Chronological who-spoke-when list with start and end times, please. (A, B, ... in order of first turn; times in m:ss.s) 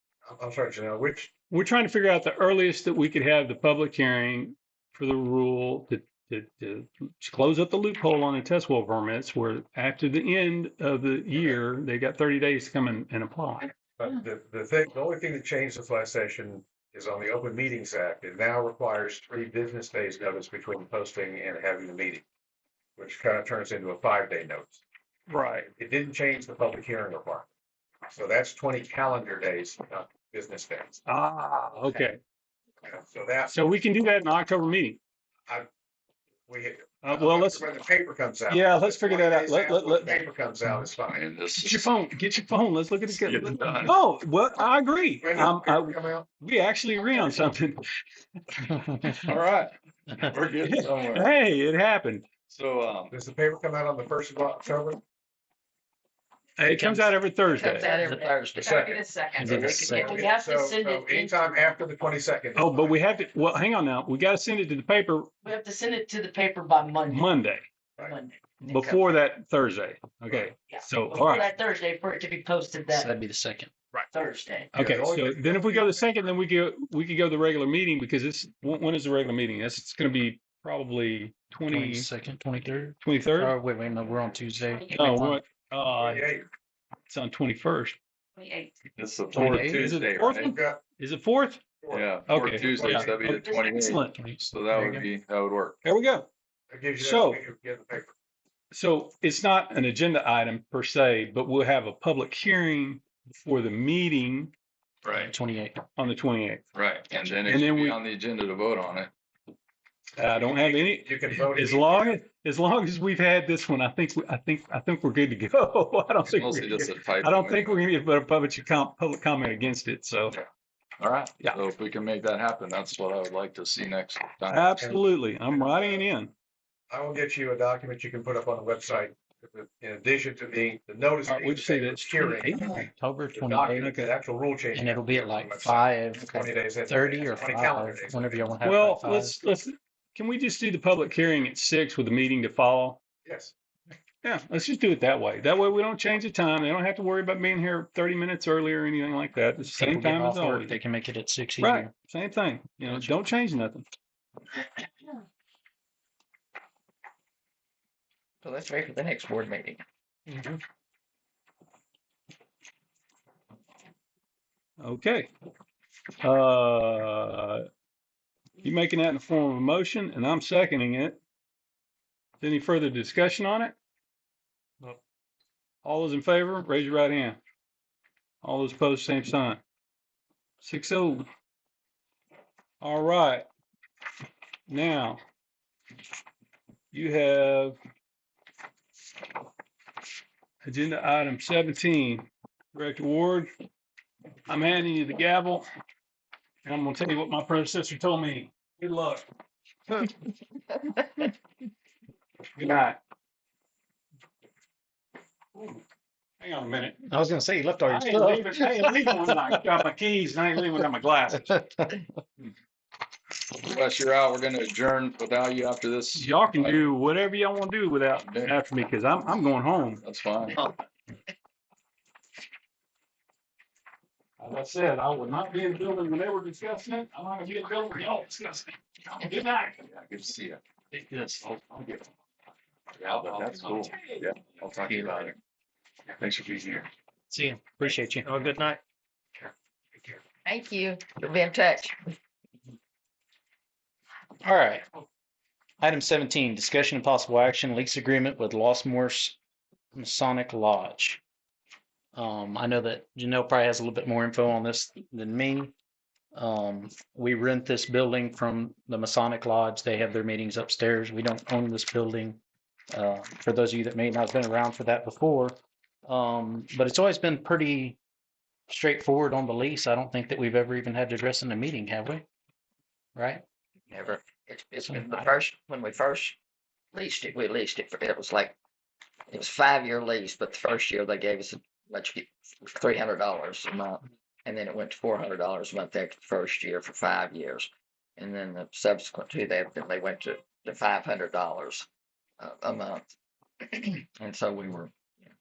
0:00.2-0:01.3 A
0:01.5-0:13.7 B
0:14.0-0:22.2 A
0:23.0-0:24.8 A
0:25.3-0:25.7 B
0:25.8-0:27.5 A
0:28.1-0:31.0 A
0:31.0-0:32.2 B
0:32.8-0:33.6 A
0:33.5-0:35.0 B
0:36.5-0:41.2 A
0:37.0-0:37.7 B
0:38.5-0:40.2 B
0:41.1-0:41.9 C
0:41.6-0:47.8 B
0:43.1-0:43.9 C
0:45.2-0:46.2 A
0:48.7-0:49.3 D
0:49.1-0:51.3 C
0:50.6-0:52.3 B
0:52.5-0:53.1 C
0:53.1-0:55.0 A
0:56.6-0:57.9 B
0:56.6-0:57.1 D
0:57.5-0:58.8 E
0:57.6-1:01.8 F
0:58.6-1:03.0 A
0:59.3-1:00.2 D
0:59.4-1:00.2 C
1:02.6-1:05.3 B
1:05.4-1:07.3 F
1:07.1-1:07.6 B
1:08.0-1:08.9 F
1:08.6-1:11.5 B
1:10.7-1:13.1 F
1:12.9-1:13.7 D
1:14.1-1:14.7 F
1:14.7-1:22.1 B
1:14.8-1:16.1 A
1:21.7-1:25.4 D
1:23.0-1:23.5 B
1:24.6-1:25.2 F
1:24.9-1:26.3 B
1:26.0-1:26.4 A
1:27.1-1:28.0 B
1:28.4-1:28.8 F
1:29.0-1:30.6 C
1:29.3-1:29.8 D
1:29.3-1:31.6 B
1:30.3-1:30.8 A
1:31.8-1:33.5 A
1:31.9-1:35.8 C
1:32.3-1:34.2 B
1:33.4-1:33.7 F
1:33.9-1:35.0 D
1:35.8-1:36.3 B
1:36.7-1:38.1 A
1:37.0-1:37.4 B
1:38.7-1:44.5 B
1:45.0-1:45.3 C
1:45.1-1:45.8 D
1:46.0-1:46.7 B
1:46.7-1:49.1 C
1:47.4-1:48.0 B
1:50.2-2:00.4 B
1:50.2-1:52.1 A
1:56.2-1:57.8 C
2:01.0-2:04.8 C
2:04.5-2:06.3 B
2:04.8-2:06.1 A
2:06.9-2:18.6 A
2:11.2-2:12.9 B
2:12.6-2:13.9 D
2:13.8-2:14.1 B
2:14.7-2:19.3 D
2:18.6-2:23.0 B
2:23.2-2:23.5 A
2:24.2-2:30.8 B
2:29.7-2:31.9 D
2:31.6-2:33.8 B
2:32.8-2:33.1 D
2:38.4-2:39.8 E
2:44.8-2:45.3 B
2:46.2-2:47.6 B
2:48.6-2:51.2 B
2:52.4-2:53.7 B
2:55.8-2:57.4 B
2:58.4-2:59.6 B
3:00.6-3:01.2 B
3:02.8-3:03.4 B
3:04.7-3:05.2 B
3:06.9-3:07.8 B
3:10.6-3:13.5 B
3:14.5-3:15.6 B
3:16.6-3:19.2 B
3:22.6-3:23.0 B
3:25.5-3:25.8 B
3:26.4-3:27.1 B
3:27.1-3:29.6 D
3:27.9-3:31.5 B
3:31.3-3:32.0 D
3:33.6-3:36.8 C
3:36.1-3:40.0 B
3:38.2-3:38.6 C
3:40.0-3:40.6 C
3:44.4-3:49.8 B
3:49.9-3:50.6 C
3:53.0-3:55.3 C
3:54.8-3:55.3 E
3:56.1-3:56.9 C
3:57.3-3:58.7 D
4:00.4-4:02.0 E
4:04.4-4:04.8 D
4:05.8-4:09.4 D
4:09.9-4:11.2 D
4:12.1-4:15.7 D
4:16.3-4:22.4 D
4:22.9-4:28.0 D
4:28.7-4:32.2 D
4:33.1-4:33.4 D
4:33.9-4:36.4 E
4:34.9-4:35.2 D
4:36.9-4:38.5 E
4:39.3-4:51.9 E
4:52.4-4:53.1 E
4:53.6-4:54.9 E